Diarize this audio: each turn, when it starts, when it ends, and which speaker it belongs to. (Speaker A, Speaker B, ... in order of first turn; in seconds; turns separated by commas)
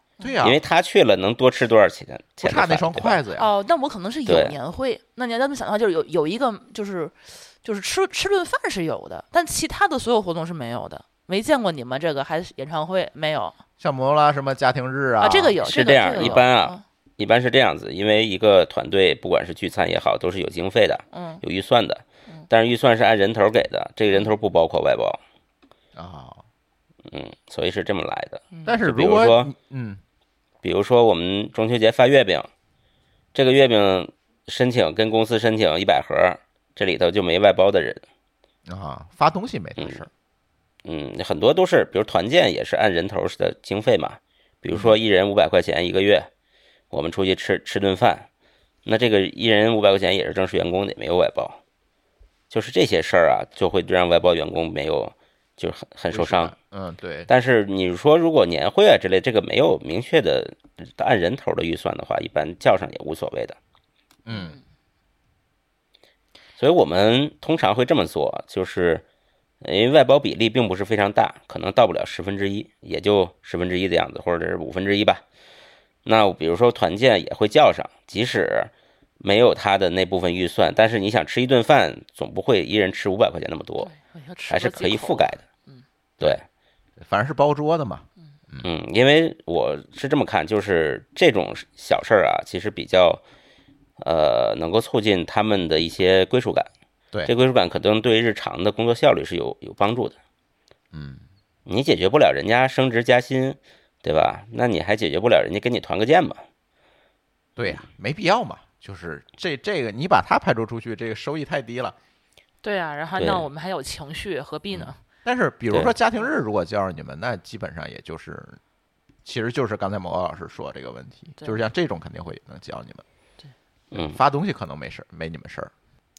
Speaker A: 0.2-0.6, Speaker B: 0.4-3.2, Speaker A: 2.4-3.5, Speaker C: 3.4-13.6, Speaker B: 4.3-4.6, Speaker A: 13.8-15.6, Speaker C: 15.2-16.8, Speaker B: 15.6-25.2, Speaker A: 16.1-16.4, Speaker C: 21.1-21.4, Speaker A: 26.0-26.4, Speaker B: 27.1-29.5, Speaker C: 28.5-28.8, Speaker A: 28.6-30.0, Speaker B: 30.6-32.5, Speaker B: 33.3-38.0, Speaker A: 38.7-40.1, Speaker B: 40.9-46.3, Speaker A: 44.7-45.0, Speaker B: 46.9-48.3, Speaker B: 48.9-51.6, Speaker B: 52.5-56.5, Speaker A: 56.1-57.3, Speaker B: 57.3-63.6, Speaker A: 64.3-64.6, Speaker C: 64.3-64.6, Speaker B: 66.6-69.0, Speaker B: 69.6-75.2, Speaker B: 76.0-83.9, Speaker C: 83.8-85.8, Speaker B: 84.5-85.4, Speaker A: 87.0-88.7, Speaker B: 88.6-93.2, Speaker B: 94.0-96.7, Speaker B: 97.3-100.2, Speaker A: 100.9-101.2, Speaker B: 101.7-106.4, Speaker A: 107.6-112.0, Speaker C: 112.6-115.0, Speaker B: 113.2-113.5, Speaker A: 114.7-118.6, Speaker A: 119.2-123.0, Speaker B: 123.9-124.2, Speaker A: 123.9-125.7